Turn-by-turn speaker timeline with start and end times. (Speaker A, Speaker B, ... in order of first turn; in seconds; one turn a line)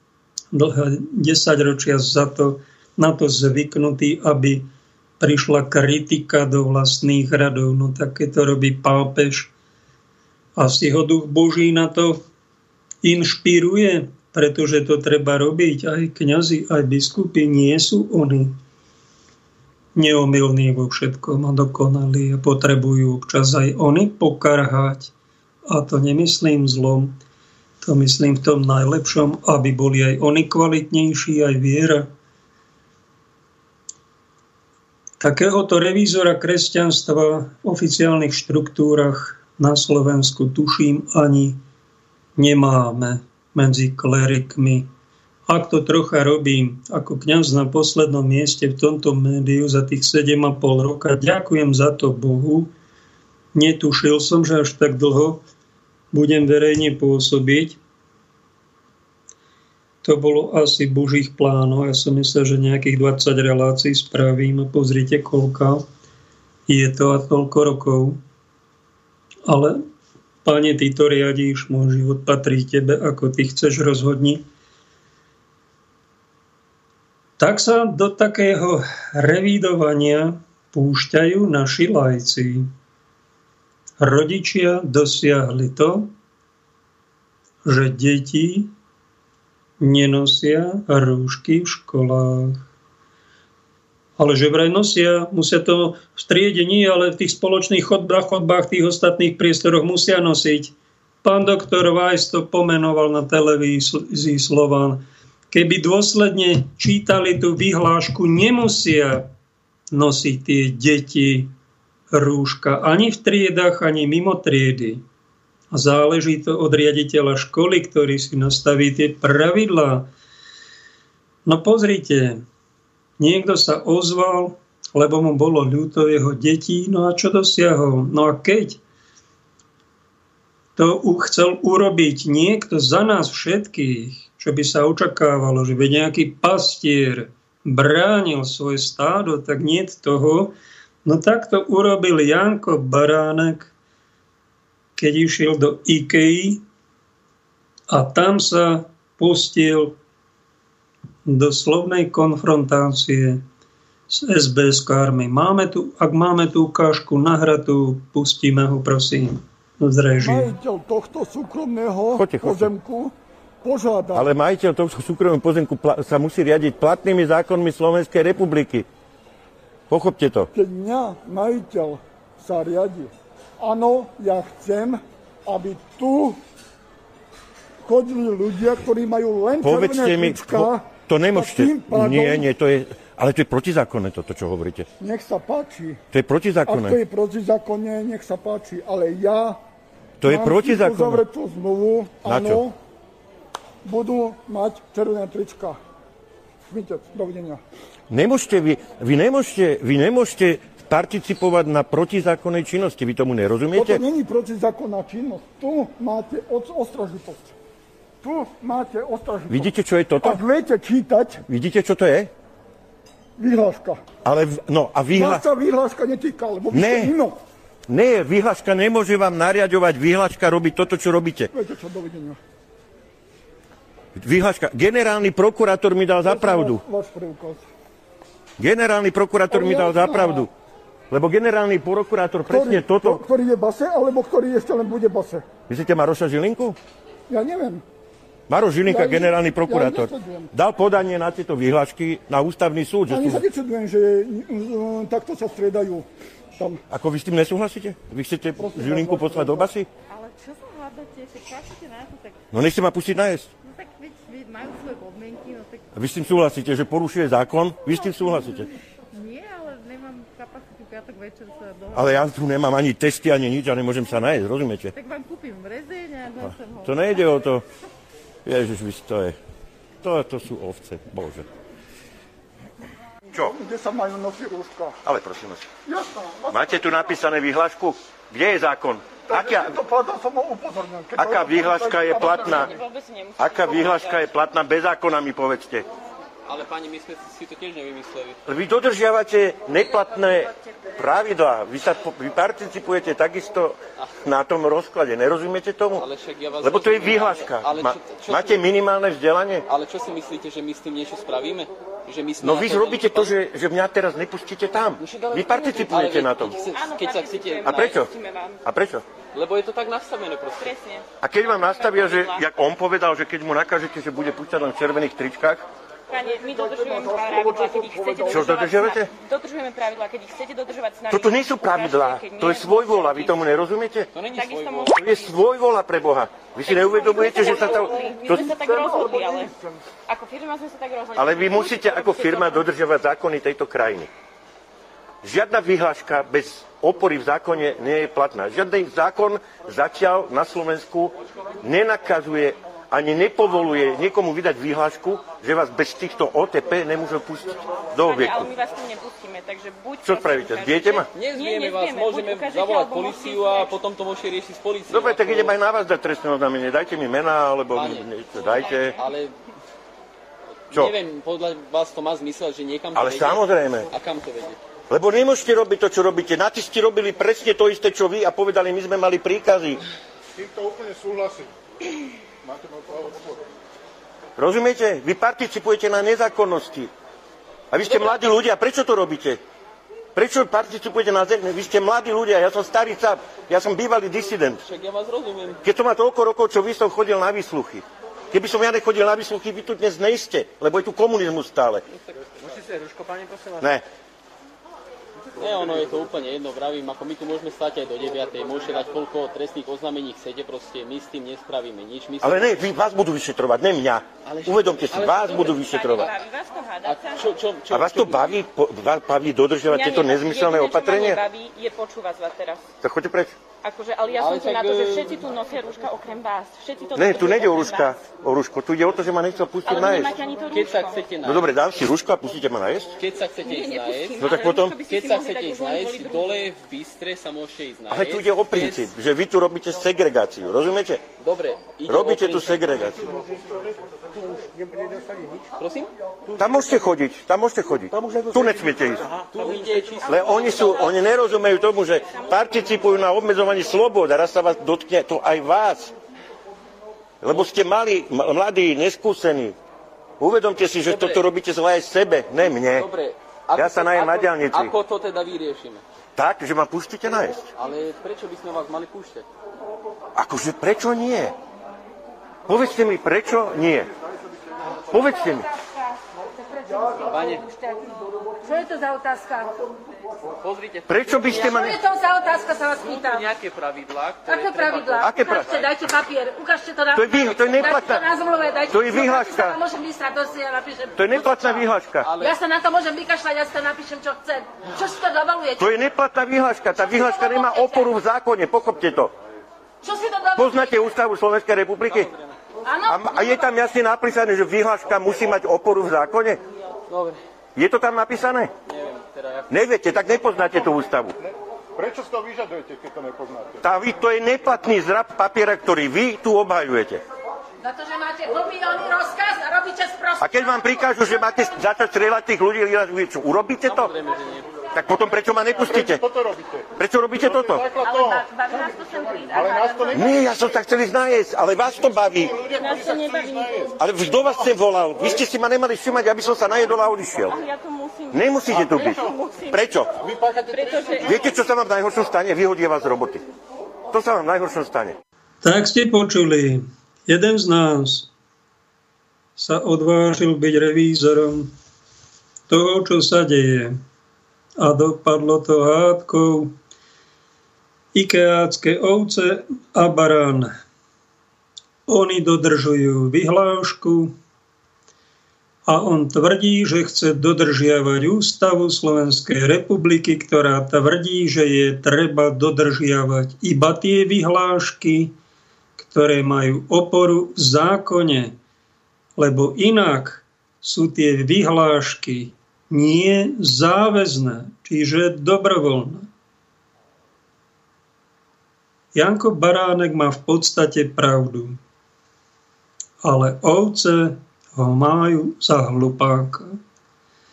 Speaker A: 0.5-4.7
Speaker A: 5.2-9.5
Speaker A: 10.6-12.2
Speaker A: 13.0-18.6
Speaker A: 20.0-25.1
Speaker A: 25.7-27.1
Speaker A: 27.8-32.1
Speaker A: 35.2-41.6
Speaker A: 42.4-44.9
Speaker A: 45.5-52.7
Speaker A: 53.5-55.4
Speaker A: 56.1-57.8
Speaker A: 60.0-65.8
Speaker A: 66.7-68.2
Speaker A: 69.5-69.8
Speaker A: 70.5-74.4
Speaker A: 77.4-82.7
Speaker A: 84.0-86.1
Speaker A: 87.7-88.7
Speaker A: 89.8-92.6
Speaker A: 94.2-109.3
Speaker A: 109.9-111.5
Speaker A: 112.1-115.0
Speaker A: 115.7-120.1
Speaker A: 121.5-122.4
Speaker A: 123.2-128.8
Speaker A: 130.8-140.5
Speaker A: 141.1-143.7
Speaker A: 145.0-146.6
Speaker A: 147.9-150.0
Speaker A: 151.3-153.4
Speaker A: 154.1-160.5
Speaker B: 160.2-164.3
Speaker C: 162.2-162.7
Speaker C: 164.1-168.9
Speaker C: 169.9-170.5
Speaker B: 170.5-176.4
Speaker B: 177.8-182.5
Speaker C: 179.6-184.9
Speaker B: 185.0-186.0
Speaker C: 186.1-187.0
Speaker B: 186.7-189.6
Speaker C: 190.2-191.2
Speaker B: 190.3-192.8
Speaker C: 192.2-192.6
Speaker B: 193.8-195.8
Speaker B: 196.7-197.6
Speaker C: 198.1-204.0
Speaker B: 203.7-207.5
Speaker B: 208.2-209.7
Speaker C: 209.5-210.4
Speaker B: 210.2-211.4
Speaker C: 211.4-212.3
Speaker B: 213.4-214.0
Speaker C: 214.2-215.4
Speaker B: 215.1-217.4
Speaker C: 216.7-217.1
Speaker C: 217.9-221.5
Speaker B: 221.5-222.4
Speaker C: 224.2-226.8
Speaker B: 226.3-227.6
Speaker C: 228.6-230.5
Speaker B: 229.5-230.5
Speaker C: 231.1-233.2
Speaker B: 232.5-235.5
Speaker C: 235.7-236.8
Speaker B: 237.3-237.8
Speaker C: 238.5-243.5
Speaker B: 238.9-240.5
Speaker B: 243.1-246.1
Speaker B: 246.6-246.8
Speaker C: 246.9-249.9
Speaker B: 248.6-249.7
Speaker C: 252.5-253.5
Speaker C: 255.9-258.7
Speaker C: 261.9-264.9
Speaker C: 266.4-267.6
Speaker C: 268.4-269.4
Speaker C: 270.0-271.5
Speaker B: 273.4-274.9
Speaker C: 275.1-275.7
Speaker B: 275.9-276.8
Speaker C: 276.5-279.7
Speaker B: 279.3-282.7
Speaker C: 281.2-282.7
Speaker D: 282.5-284.2
Speaker C: 283.4-285.9
Speaker E: 286.5-288.4
Speaker C: 288.5-296.1
Speaker E: 296.0-298.6
Speaker C: 296.6-299.6
Speaker E: 299.7-303.3
Speaker C: 302.4-306.6
Speaker E: 305.0-308.0
Speaker D: 306.8-308.6
Speaker C: 307.6-308.1
Speaker C: 308.6-309.0
Speaker E: 309.3-310.8
Speaker D: 310.6-311.1
Speaker C: 311.2-315.6
Speaker D: 311.8-312.4
Speaker D: 316.1-323.3
Speaker B: 316.5-318.3
Speaker C: 318.3-319.1
Speaker C: 321.1-324.1
Speaker E: 324.1-325.0
Speaker D: 324.3-325.3
Speaker C: 324.9-329.1
Speaker D: 326.6-329.5
Speaker D: 330.1-332.6
Speaker C: 331.2-334.1
Speaker C: 335.2-348.5
Speaker D: 348.0-353.7
Speaker C: 350.0-351.1
Speaker E: 351.1-355.5
Speaker C: 354.9-358.9
Speaker E: 357.7-359.3
Speaker E: 360.7-364.6
Speaker C: 362.9-363.9
Speaker C: 364.9-369.8
Speaker C: 374.4-376.9
Speaker C: 377.7-379.4
Speaker E: 377.8-378.1
Speaker C: 380.1-384.6
Speaker E: 384.7-385.6
Speaker C: 385.6-391.9
Speaker E: 392.2-393.5
Speaker C: 393.6-393.8
Speaker E: 395.4-402.6
Speaker C: 402.2-406.1
Speaker E: 404.3-406.1
Speaker D: 405.2-407.2
Speaker E: 406.9-408.4
Speaker C: 407.7-411.2
Speaker D: 409.7-412.7
Speaker C: 412.8-413.4
Speaker D: 413.6-417.9
Speaker E: 414.2-415.3
Speaker C: 416.9-420.1
Speaker D: 419.6-421.0
Speaker E: 420.5-421.5
Speaker C: 421.2-422.9
Speaker E: 423.0-424.3
Speaker D: 423.4-426.4
Speaker C: 424.2-424.8
Speaker E: 424.8-428.9
Speaker C: 427.9-431.1
Speaker E: 431.2-432.7
Speaker C: 431.9-433.1
Speaker E: 435.6-435.9
Speaker C: 436.3-439.4
Speaker E: 439.3-440.8
Speaker C: 440.1-445.9
Speaker C: 447.2-449.6
Speaker C: 450.2-452.9
Speaker E: 450.9-451.2
Speaker E: 452.7-455.8
Speaker C: 453.6-454.8
Speaker C: 456.2-457.5
Speaker E: 457.6-459.3
Speaker C: 460.1-461.3
Speaker C: 462.5-463.9
Speaker C: 464.9-465.5
Speaker F: 466.6-467.9
Speaker E: 467.0-467.4
Speaker F: 468.4-469.6
Speaker E: 470.4-471.0
Speaker C: 470.9-471.8
Speaker F: 471.3-473.4
Speaker E: 472.8-475.6
Speaker F: 474.2-481.6
Speaker C: 475.0-475.5
Speaker C: 476.9-478.1
Speaker C: 478.7-479.6
Speaker C: 480.9-482.1
Speaker E: 482.0-482.4
Speaker F: 482.2-485.7
Speaker C: 485.6-489.1
Speaker F: 486.8-487.9
Speaker F: 489.8-490.7
Speaker C: 490.4-492.1
Speaker F: 492.7-493.6
Speaker C: 492.9-496.4
Speaker E: 496.9-497.2
Speaker C: 497.6-498.5
Speaker E: 498.7-499.5
Speaker C: 499.5-501.1
Speaker C: 503.6-507.0
Speaker F: 507.6-510.3
Speaker C: 510.2-513.9
Speaker E: 513.6-514.5
Speaker C: 514.7-516.1
Speaker C: 516.8-517.7
Speaker F: 517.7-520.3
Speaker C: 519.9-522.4
Speaker D: 522.5-523.8
Speaker C: 523.8-527.4
Speaker D: 527.3-529.6
Speaker C: 528.1-530.0
Speaker D: 530.3-531.1
Speaker C: 531.0-533.2
Speaker C: 533.9-535.0
Speaker A: 535.4-538.1
Speaker A: 539.4-541.5
Speaker A: 542.5-543.8
Speaker A: 544.6-546.5
Speaker A: 547.9-550.5
Speaker A: 551.9-554.1
Speaker A: 555.7-565.1
Speaker A: 565.8-568.3
Speaker A: 569.2-576.1
Speaker A: 579.0-581.6
Speaker A: 583.0-586.6